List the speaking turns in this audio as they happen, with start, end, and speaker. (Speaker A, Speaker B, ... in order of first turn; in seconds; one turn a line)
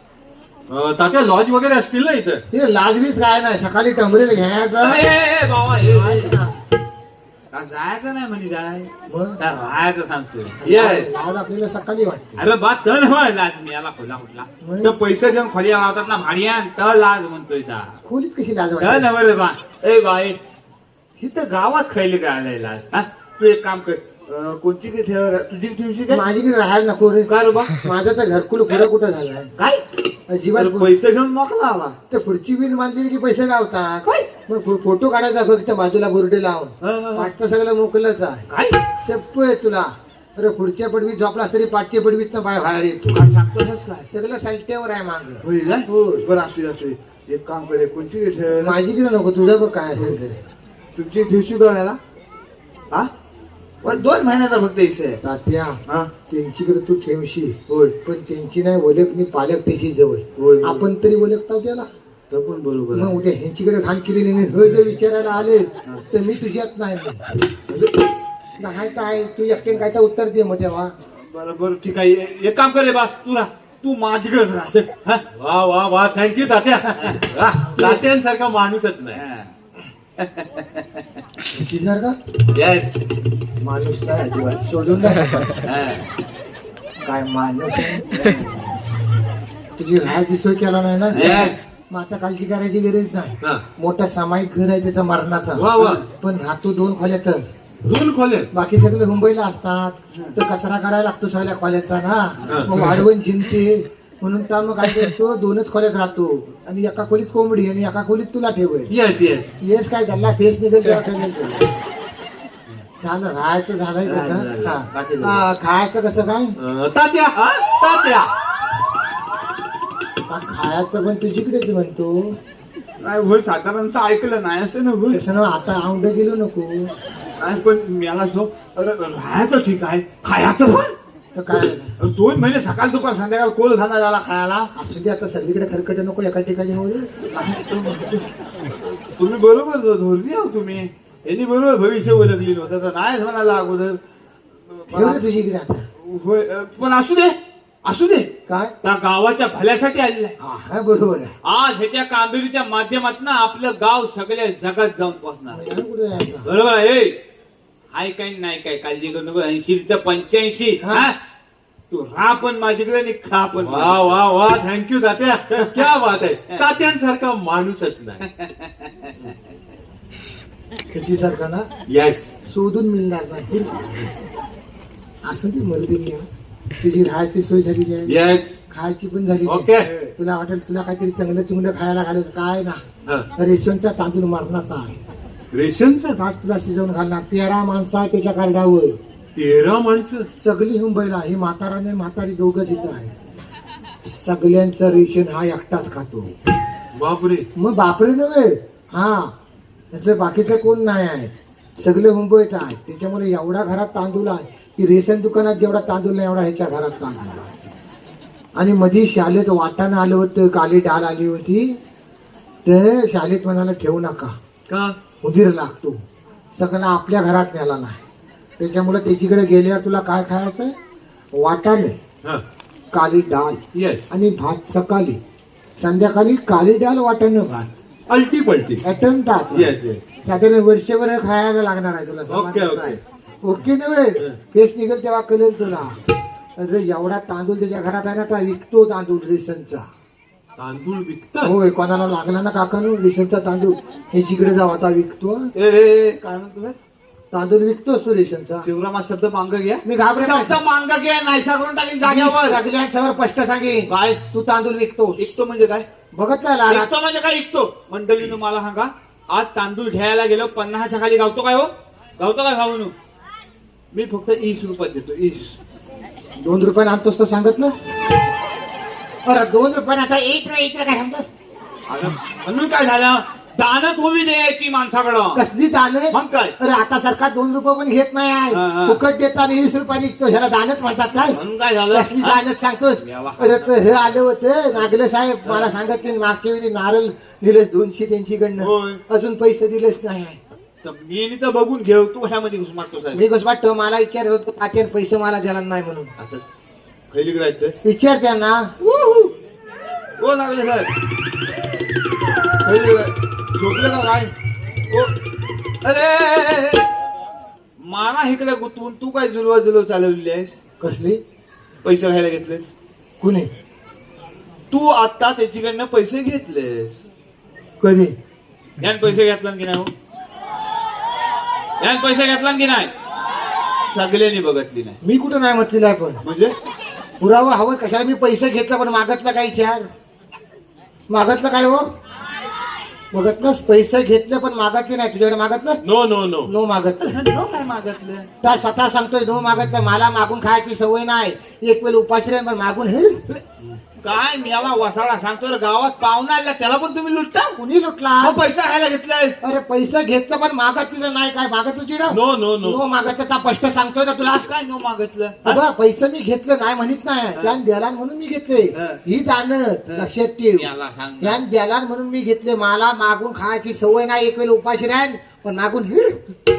Speaker A: 0.7-2.4
Speaker B: 2.5-5.0
Speaker C: 4.8-6.3
Speaker B: 5.8-6.5
Speaker C: 7.5-11.1
Speaker B: 9.1-9.4
Speaker B: 10.6-12.4
Speaker C: 12.4-18.0
Speaker B: 14.6-14.9
Speaker B: 18.0-19.1
Speaker C: 18.8-20.4
Speaker C: 21.2-26.2
Speaker B: 26.1-29.5
Speaker C: 27.3-27.7
Speaker C: 29.6-29.8
Speaker B: 30.3-30.9
Speaker C: 30.5-32.0
Speaker B: 32.1-38.5
Speaker C: 36.8-37.3
Speaker C: 38.5-38.8
Speaker B: 39.0-43.3
Speaker C: 43.1-44.1
Speaker B: 44.1-46.2
Speaker C: 45.4-48.8
Speaker B: 48.6-50.4
Speaker C: 51.0-52.0
Speaker C: 53.8-55.2
Speaker B: 55.2-61.9
Speaker C: 55.9-56.1
Speaker C: 57.7-58.0
Speaker C: 60.4-60.9
Speaker C: 62.3-63.2
Speaker B: 62.9-67.2
Speaker B: 68.6-70.9
Speaker C: 71.2-75.2
Speaker A: 75.3-79.2
Speaker C: 77.7-78.0
Speaker C: 79.1-79.5
Speaker C: 80.2-80.8
Speaker B: 81.5-82.2
Speaker A: 82.5-83.0
Speaker B: 83.6-85.5
Speaker C: 85.6-86.0
Speaker B: 87.0-88.0
Speaker C: 88.2-88.5
Speaker B: 89.8-97.5
Speaker C: 91.1-91.6
Speaker A: 91.1-91.6
Speaker A: 95.6-96.0
Speaker C: 95.8-96.0
Speaker A: 97.8-98.5
Speaker B: 98.5-108.9
Speaker C: 100.1-100.4
Speaker C: 102.4-102.7
Speaker A: 102.5-103.0
Speaker A: 108.9-109.5
Speaker B: 109.6-111.7
Speaker B: 113.0-116.6
Speaker C: 114.1-115.4
Speaker A: 116.6-118.3
Speaker C: 117.3-117.9
Speaker B: 120.3-122.4
Speaker C: 123.0-125.2
Speaker B: 125.1-126.9
Speaker C: 127.4-130.9
Speaker B: 131.3-131.9
Speaker C: 132.0-134.7
Speaker B: 134.8-137.1
Speaker C: 137.3-138.2
Speaker C: 138.9-144.0
Speaker C: 144.7-145.2
Speaker B: 144.9-145.8
Speaker C: 146.0-148.3
Speaker B: 148.5-148.7
Speaker C: 148.8-150.3
Speaker B: 150.4-151.3
Speaker C: 151.4-155.7
Speaker B: 155.5-156.5
Speaker C: 156.4-157.2
Speaker C: 157.9-161.2
Speaker B: 160.8-161.1
Speaker C: 161.9-164.2
Speaker A: 163.6-168.2
Speaker C: 168.4-168.7
Speaker B: 170.9-171.7
Speaker A: 171.9-172.3
Speaker B: 172.4-173.9
Speaker B: 175.2-176.2
Speaker B: 176.8-178.2
Speaker A: 178.1-178.6
Speaker B: 178.7-182.8
Speaker A: 179.4-179.9
Speaker B: 183.3-185.0
Speaker A: 185.5-186.2
Speaker B: 186.2-189.0
Speaker A: 189.3-190.3
Speaker B: 190.4-193.2
Speaker B: 194.0-196.3
Speaker A: 196.9-197.5
Speaker B: 197.6-199.3
Speaker B: 199.9-207.5
Speaker B: 208.6-211.8
Speaker B: 212.7-214.3
Speaker A: 214.7-215.0
Speaker B: 215.2-216.0
Speaker B: 216.5-218.0
Speaker B: 218.6-220.8
Speaker B: 221.3-222.0
Speaker B: 222.9-225.2
Speaker A: 223.7-224.1
Speaker B: 225.8-227.7
Speaker A: 228.1-228.8
Speaker B: 228.8-236.0
Speaker A: 229.5-230.0
Speaker A: 232.3-233.0
Speaker B: 236.6-239.9
Speaker A: 240.6-241.5
Speaker B: 241.4-245.5
Speaker C: 245.6-246.8
Speaker B: 247.3-248.7
Speaker C: 248.6-252.6
Speaker B: 249.8-250.6
Speaker B: 252.0-255.2
Speaker C: 253.9-254.2
Speaker C: 255.2-255.9
Speaker B: 256.1-256.9
Speaker C: 256.7-262.9
Speaker C: 263.9-265.5
Speaker B: 266.4-267.8
Speaker B: 269.2-271.3
Speaker C: 271.9-275.4
Speaker B: 275.3-281.4
Speaker C: 276.1-276.6
Speaker C: 278.5-279.0
Speaker C: 281.3-282.4
Speaker B: 281.9-290.4
Speaker C: 283.0-284.1
Speaker C: 285.4-285.7
Speaker C: 288.6-289.0
Speaker C: 290.8-293.2
Speaker B: 293.1-296.1
Speaker C: 296.2-296.4
Speaker C: 297.1-297.8
Speaker B: 297.8-298.8
Speaker C: 298.8-299.3
Speaker C: 300.2-300.9
Speaker C: 302.6-304.3
Speaker C: 304.9-305.2
Speaker C: 305.8-306.9
Speaker C: 307.8-310.6
Speaker B: 310.8-311.2
Speaker C: 311.8-312.7
Speaker B: 313.2-313.5
Speaker C: 314.7-317.0
Speaker B: 317.8-318.1
Speaker C: 318.8-319.9
Speaker C: 321.8-322.9
Speaker C: 323.8-324.9
Speaker B: 325.0-326.2
Speaker C: 326.2-326.6
Speaker B: 327.2-329.9
Speaker B: 331.1-331.9
Speaker B: 333.1-335.8
Speaker A: 335.8-336.5
Speaker B: 336.4-337.2
Speaker C: 337.0-338.3
Speaker B: 338.4-343.2
Speaker C: 343.3-347.6
Speaker B: 347.6-348.4
Speaker C: 348.2-349.4
Speaker B: 349.4-354.4
Speaker A: 352.1-352.8
Speaker C: 354.2-355.6
Speaker B: 355.4-360.7
Speaker C: 358.7-359.0
Speaker C: 359.9-361.4
Speaker B: 361.2-366.4